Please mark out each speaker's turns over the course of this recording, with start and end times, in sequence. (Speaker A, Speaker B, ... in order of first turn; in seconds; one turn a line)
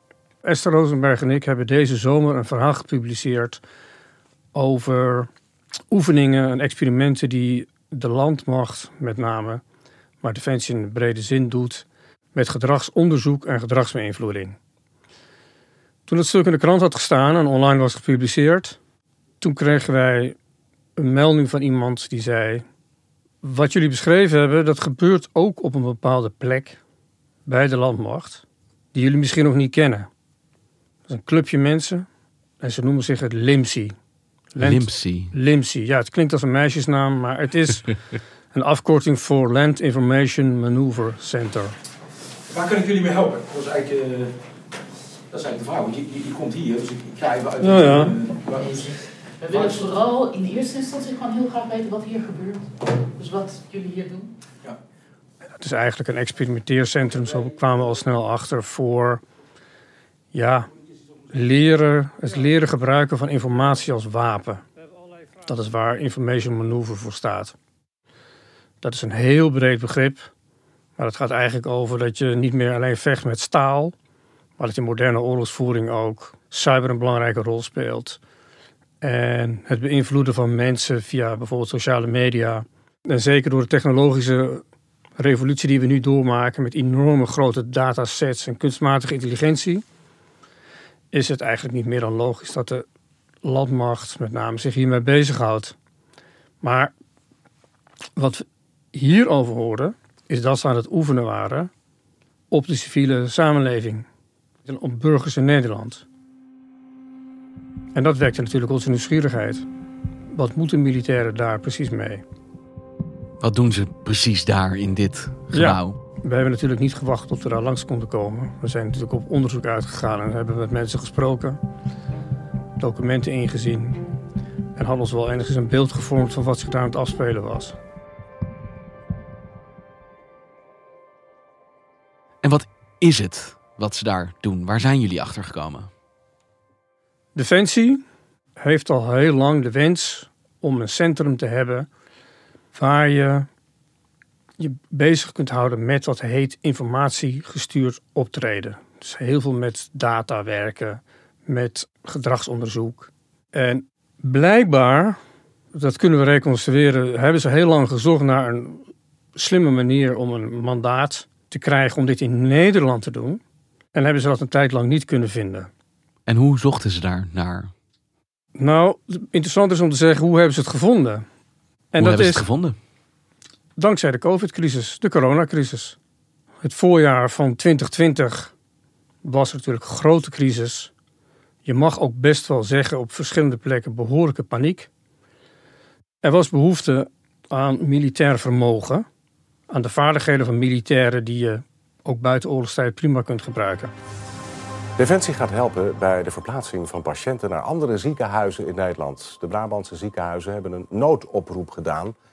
Speaker A: 0.4-3.6
Speaker A: 4.5-5.3
Speaker A: 5.9-9.6
Speaker A: 10.2-14.6
Speaker A: 16.1-18.8
Speaker A: 19.4-20.4
Speaker A: 21.0-22.6
Speaker A: 23.4-26.8
Speaker A: 27.4-30.1
Speaker A: 31.1-32.1
Speaker A: 32.6-34.0
Speaker A: 34.5-38.0
Speaker B: 34.6-35.3
Speaker A: 38.5-41.8
Speaker C: 42.5-44.3
Speaker C: 45.3-48.9
Speaker A: 47.6-48.2
Speaker D: 49.5-52.6
Speaker D: 53.2-54.3
Speaker A: 55.6-59.2
Speaker A: 60.3-60.7
Speaker A: 61.3-64.6
Speaker A: 65.4-67.5
Speaker A: 68.8-70.3
Speaker A: 71.0-74.0
Speaker A: 74.6-78.2
Speaker A: 79.0-84.6
Speaker A: 85.2-89.8
Speaker A: 91.1-92.8
Speaker A: 93.4-95.8
Speaker A: 96.6-96.9
Speaker A: 98.2-101.7
Speaker A: 102.5-104.0
Speaker A: 104.6-106.1
Speaker A: 107.9-109.7
Speaker A: 110.3-112.2
Speaker B: 113.4-116.0
Speaker A: 115.5-121.6
Speaker A: 122.8-124.0
Speaker A: 124.8-127.8
Speaker B: 132.4-135.9
Speaker A: 137.3-138.0
Speaker A: 138.6-141.9
Speaker A: 142.7-143.5
Speaker A: 144.6-155.2
Speaker A: 155.7-163.4
Speaker A: 163.9-165.7
Speaker B: 166.3-167.7
Speaker A: 168.6-171.2
Speaker A: 171.9-172.4
Speaker B: 172.0-172.8
Speaker A: 173.8-176.0
Speaker A: 176.6-178.5
Speaker A: 179.2-180.9
Speaker A: 181.7-184.9
Speaker A: 186.2-189.1
Speaker A: 189.7-193.9
Speaker E: 195.0-202.1